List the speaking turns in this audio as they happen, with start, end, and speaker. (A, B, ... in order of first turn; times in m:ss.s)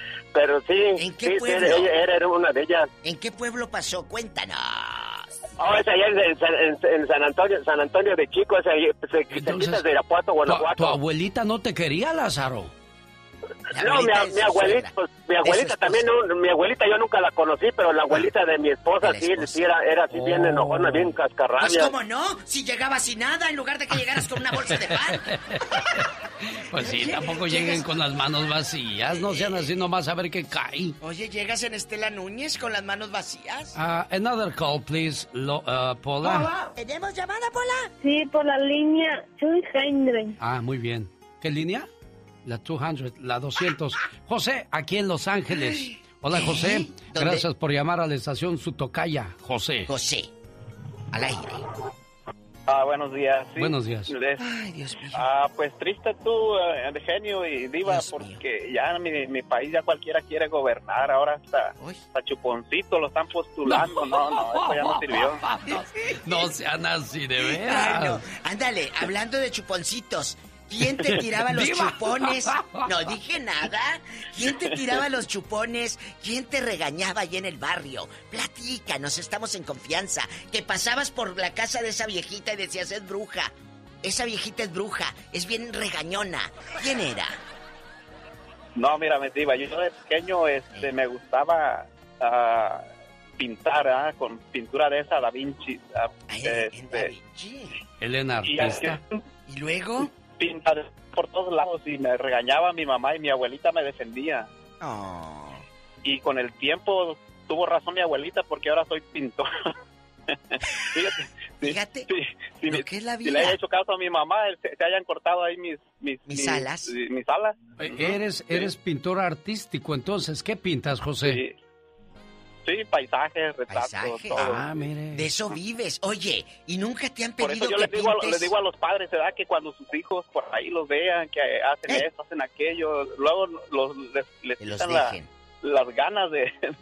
0:00.3-0:02.9 A
0:01.0-0:02.0 B
0:03.0-0:05.3 B
0:05.6-0:11.0 A
0:09.3-0:09.8 C
0:10.4-0:12.7 C
0:13.7-0:16.1 B
0:13.8-0:21.9 A
0:19.0-0:19.7 B
0:20.1-0:21.1 C
0:21.6-0:25.3 B
0:24.9-0:31.0 C
0:26.7-0:27.9 B
0:29.1-0:29.7 B
0:31.0-0:33.8 B
0:33.8-0:36.5 C
0:36.2-0:37.9 B
0:38.0-0:40.4 D
0:40.4-0:41.9 C
0:42.4-0:49.9 C
0:45.5-0:47.5 B
0:49.9-0:50.3 B
0:51.1-0:51.7 B
0:52.7-0:54.4 E
0:53.6-0:54.2 C
0:54.4-0:55.3 B
0:55.2-1:05.4 E
0:57.8-0:58.4 B
1:01.8-1:02.0 B
1:03.6-1:08.2 C
1:05.6-1:06.5 B
1:07.4-1:27.4 B
1:11.1-1:12.9 C
1:28.8-1:32.8 E
1:30.7-1:31.0 B
1:33.4-1:37.1 E
1:36.3-1:37.8 B
1:38.0-1:39.0 C
1:38.5-1:39.0 E
1:39.5-1:40.1 B
1:40.4-1:44.5 E
1:44.8-1:45.6 B
1:46.0-1:49.4 E
1:51.6-1:52.1 B
1:51.6-1:57.5 E
1:52.7-1:53.6 B
1:56.3-1:56.9 B
1:57.8-2:01.4 C
2:01.3-2:01.5 E
2:02.7-2:04.6 E
2:03.7-2:04.6 B
2:04.4-2:05.3 C
2:05.1-2:08.6 B
2:07.4-2:16.5 E
2:14.6-2:15.3 B